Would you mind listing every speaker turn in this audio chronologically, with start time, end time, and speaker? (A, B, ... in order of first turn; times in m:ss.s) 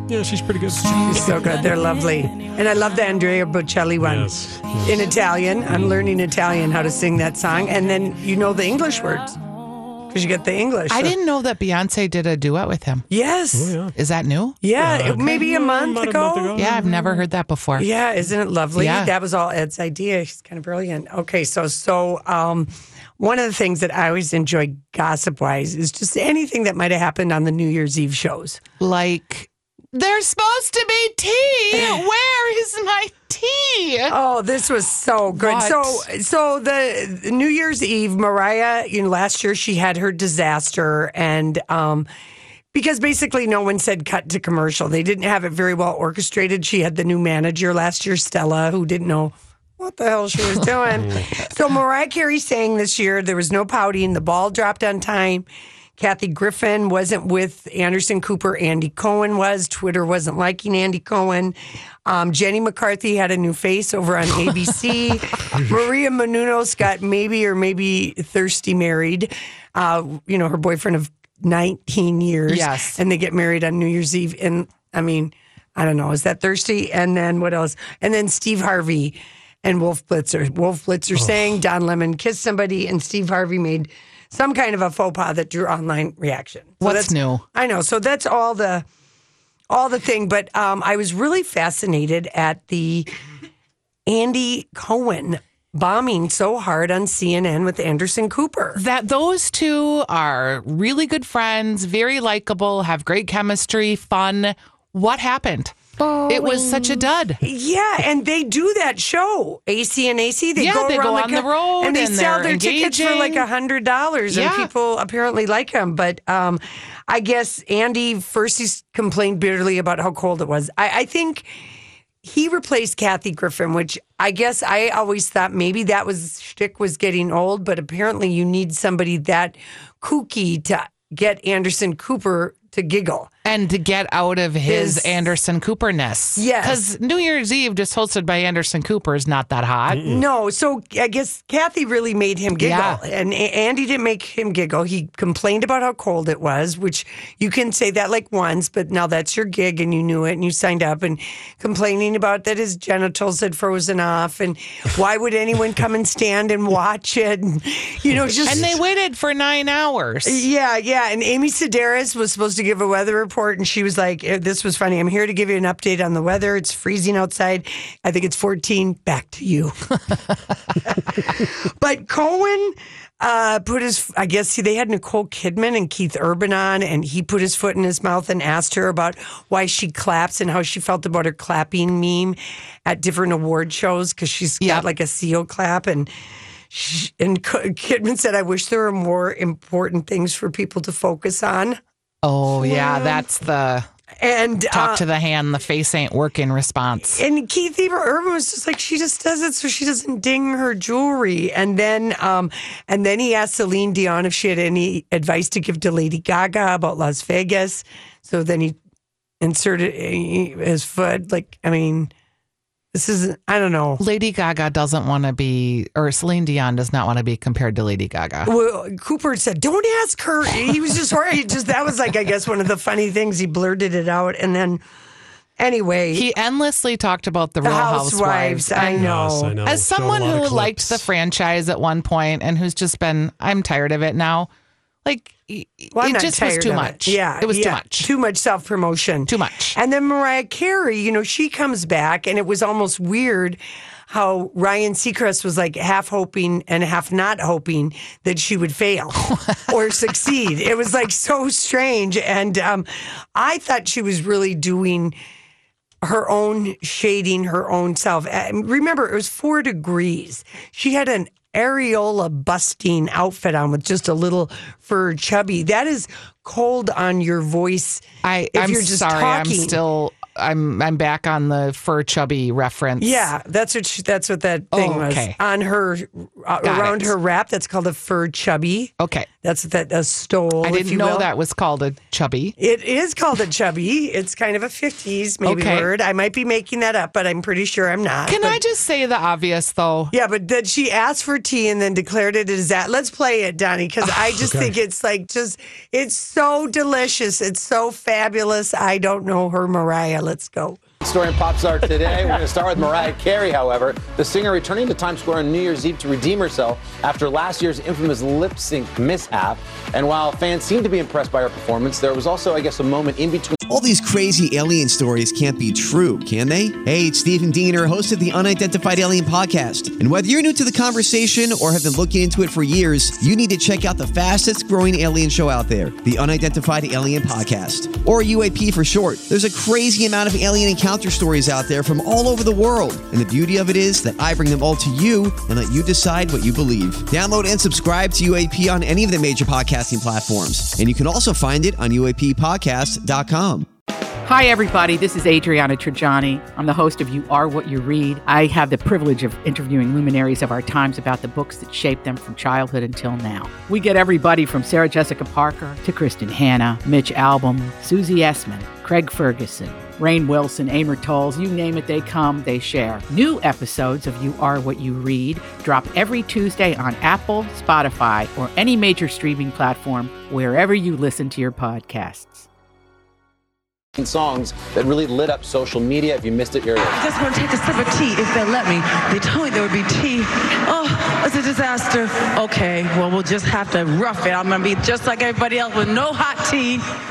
0:00.1-0:01.6 A
0:00.9-0:09.4 B
0:04.0-0:05.1 A
0:05.7-0:06.1 A
0:10.1-0:11.1 B
0:10.9-0:13.0 C
0:13.1-0:13.8 B
0:13.5-0:13.9 A
0:13.9-0:14.6 C
0:14.6-0:16.6 B
0:14.8-0:17.2 A
0:16.5-0:17.9 C
0:17.8-0:28.6 B
0:18.8-0:19.1 C
0:28.8-0:34.1 C
0:31.7-0:32.0 B
0:34.1-0:42.1 B
0:35.3-0:36.0 C
0:42.7-0:55.4 B
0:51.0-0:51.3 A
0:56.0-1:28.8 B
1:12.5-1:13.0 C
1:26.8-1:27.4 C
1:29.7-1:33.1 B
1:34.1-1:38.8 B
1:38.8-1:45.8 C
1:46.0-2:01.5 B
1:46.3-1:47.4 C
1:50.6-1:53.4 C
1:54.3-1:54.7 C
2:02.2-2:13.3 B
2:13.4-2:20.0 C
2:14.6-2:15.3 B
2:16.4-2:16.8 B
2:19.9-2:20.2 A
2:20.0-2:38.7 B
2:22.6-2:23.0 C
2:38.4-2:40.4 C
2:38.4-2:38.7 A
2:40.2-2:49.7 B
2:50.8-3:06.1 B
3:04.6-3:04.8 C
3:06.7-3:11.8 B
3:12.2-3:13.9 C
3:12.5-3:13.2 B
3:14.2-3:15.0 B
3:14.7-3:17.2 C
3:17.0-3:28.8 B
3:29.4-3:32.1 B
3:32.9-3:34.0 B
3:34.0-3:38.5 C
3:38.4-3:44.8 B
3:45.6-3:46.3 B
3:46.1-3:49.1 C
3:47.6-3:49.6 B
3:49.0-3:51.1 A
3:49.6-3:54.5 C
3:55.0-3:58.1 C
3:55.9-4:15.2 B
3:59.3-3:59.8 C
4:09.3-4:09.6 C
4:16.0-4:29.8 B
4:28.2-4:33.3 C
4:33.0-4:41.3 B
4:34.7-4:35.4 C
4:36.6-4:37.1 C
4:39.0-4:39.3 C
4:40.6-4:42.6 C
4:42.6-4:48.6 B
4:45.4-4:45.9 C
4:48.2-4:50.1 C
4:50.1-5:00.8 B
4:54.2-4:54.7 A
5:01.0-5:13.6 D
5:13.7-5:43.7 E
5:44.2-6:12.5 F
6:14.0-6:17.0 D
6:16.8-6:26.9 G